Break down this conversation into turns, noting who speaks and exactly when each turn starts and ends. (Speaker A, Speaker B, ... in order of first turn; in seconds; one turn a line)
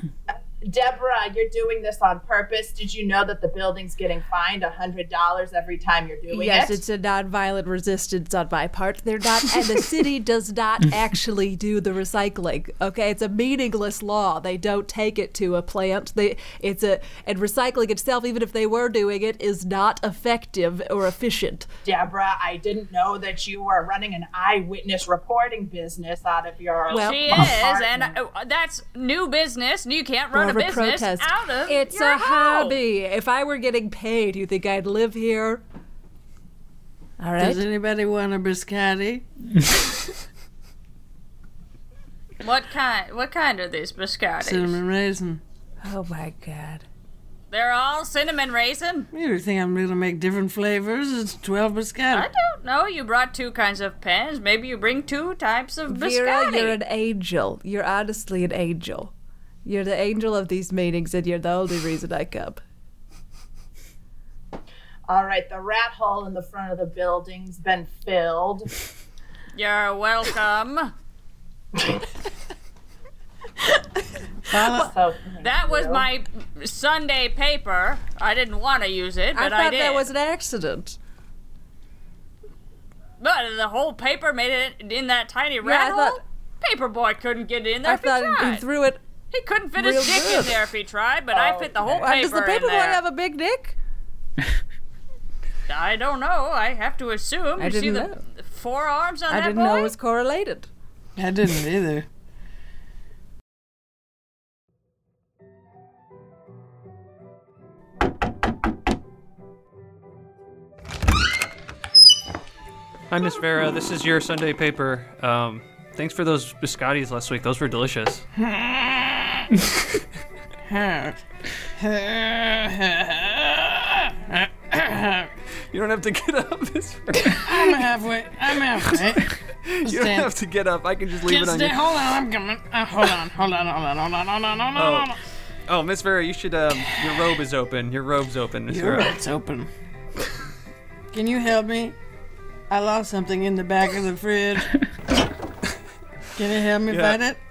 Speaker A: 0.3-6.8
Speaker B: 6.3-21.7
Speaker A: 21.9-28.1
Speaker B: 26.9-27.6
Speaker C: 26.9-32.8
Speaker B: 30.3-35.6
Speaker B: 37.2-37.6
Speaker D: 37.4-39.2
Speaker C: 42.4-44.8
Speaker D: 44.4-45.4
Speaker B: 45.8-46.8
Speaker C: 47.5-49.1
Speaker D: 49.1-52.3
Speaker C: 52.1-56.8
Speaker B: 55.9-59.1
Speaker B: 59.6-62.6
Speaker A: 65.1-68.7
Speaker C: 69.5-70.9
Speaker D: 74.5-74.9
Speaker A: 74.6-76.1
Speaker C: 75.4-80.1
Speaker B: 79.3-81.0
Speaker C: 83.2-88.7
Speaker B: 85.6-86.2
Speaker B: 87.8-89.0
Speaker C: 89.3-93.0
Speaker B: 89.8-90.6
Speaker A: 91.4-91.9
Speaker B: 91.8-93.8
Speaker C: 95.7-99.9
Speaker B: 97.6-98.2
Speaker B: 99.3-100.7
Speaker D: 101.2-102.1
Speaker E: 113.1-118.2
Speaker D: 118.4-119.5
Speaker D: 120.7-121.2
Speaker D: 121.8-125.3
Speaker E: 125.7-127.8
Speaker D: 127.3-129.3
Speaker E: 128.9-131.8
Speaker D: 129.8-130.3
Speaker D: 131.2-135.2
Speaker E: 134.8-135.1
Speaker E: 135.7-139.2
Speaker D: 138.7-139.7
Speaker D: 141.1-142.0
Speaker D: 142.7-144.7
Speaker D: 146.4-147.4
Speaker E: 146.9-147.2